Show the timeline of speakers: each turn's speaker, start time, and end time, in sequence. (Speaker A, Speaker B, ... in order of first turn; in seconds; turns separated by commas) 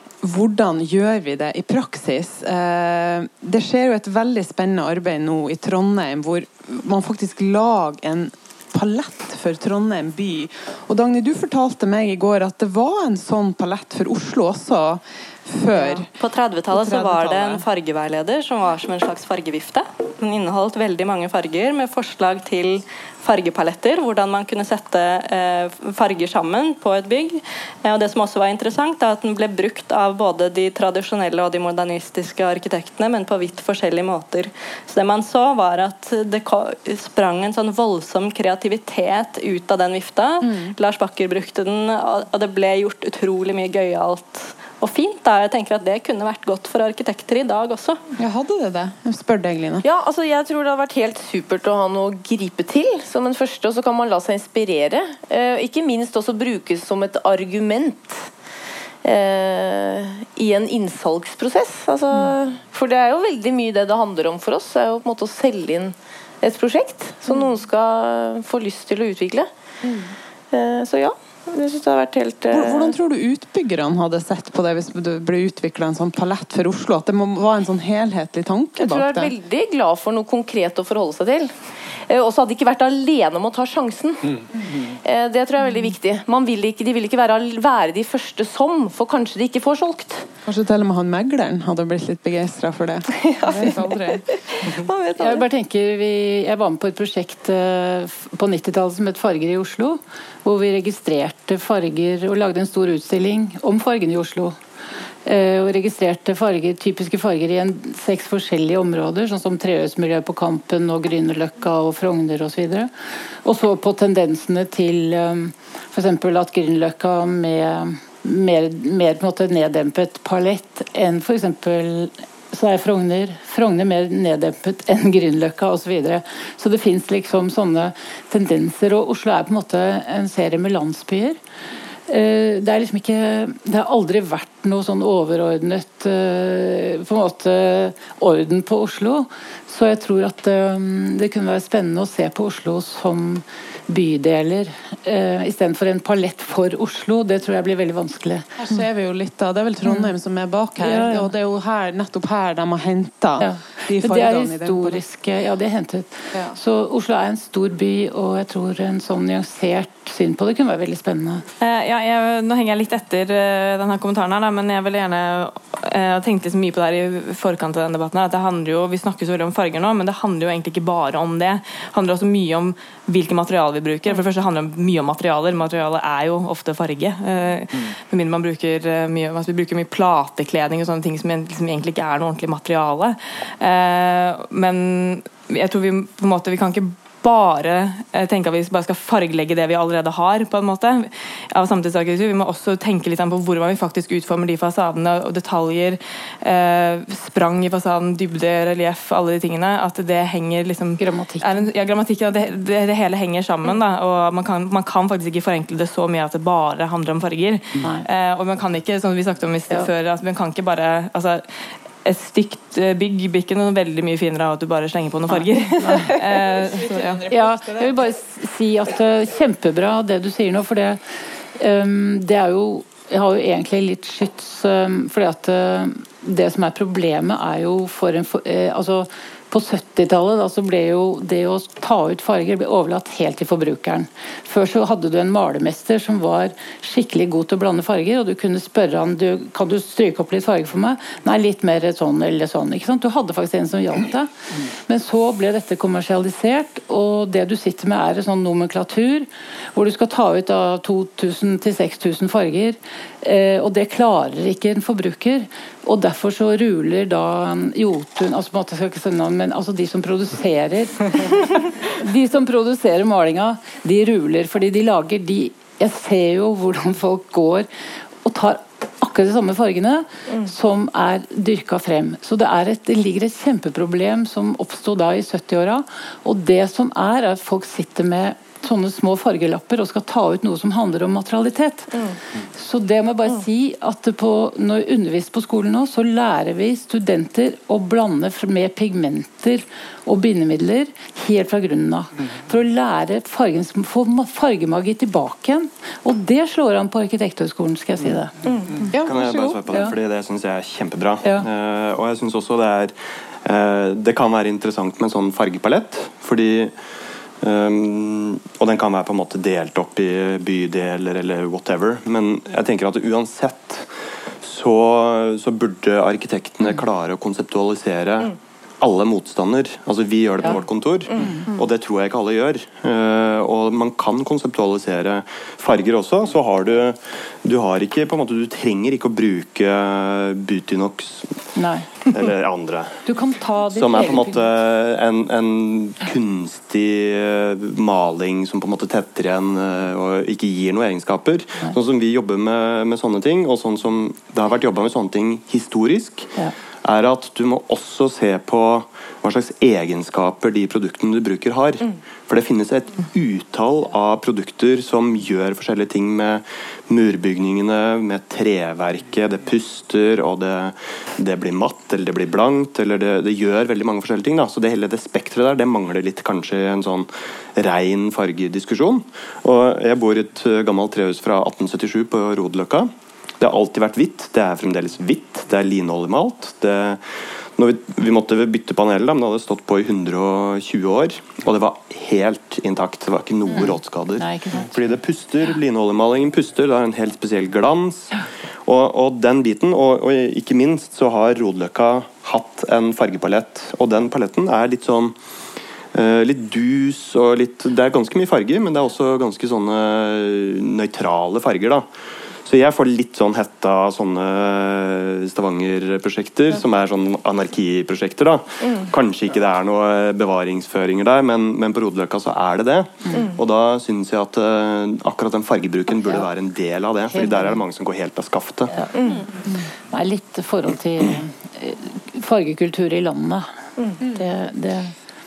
Speaker A: 0.2-16.1, Speaker B: 15.7-48.1, Speaker A: 16.7-17.6, Speaker A: 40.4-40.7, Speaker A: 48.2-49.8, Speaker C: 49.8-58.3, Speaker C: 59.0-69.5, Speaker C: 70.5-73.0, Speaker A: 72.5-79.3, Speaker C: 78.8-81.5, Speaker C: 82.1-90.3, Speaker A: 90.5-94.3, Speaker D: 93.5-93.7, Speaker B: 94.6-95.4, Speaker D: 95.2-104.6, Speaker D: 105.3-112.9, Speaker D: 113.5-131.4, Speaker D: 132.1-148.5, Speaker A: 148.6-155.0, Speaker D: 150.8-151.3, Speaker D: 153.4-161.4, Speaker E: 161.6-211.4, Speaker D: 201.0-201.7, Speaker E: 212.0-217.2, Speaker D: 215.3-216.1, Speaker A: 216.1-217.9, Speaker D: 217.3-221.0, Speaker D: 221.6-267.7, Speaker D: 268.2-282.0, Speaker D: 282.6-298.3, Speaker C: 298.5-298.8, Speaker A: 298.9-299.6, Speaker F: 299.0-306.7, Speaker D: 299.7-299.9, Speaker F: 307.4-313.9, Speaker F: 314.4-331.3, Speaker D: 331.6-331.9, Speaker F: 332.1-333.0, Speaker D: 333.1-334.4, Speaker F: 333.7-346.3, Speaker F: 346.8-377.0, Speaker F: 377.6-395.1, Speaker D: 383.5-384.8, Speaker F: 395.9-401.9, Speaker F: 402.4-418.7, Speaker D: 417.1-417.6, Speaker C: 419.0-419.2, Speaker D: 419.9-423.5, Speaker D: 424.1-424.9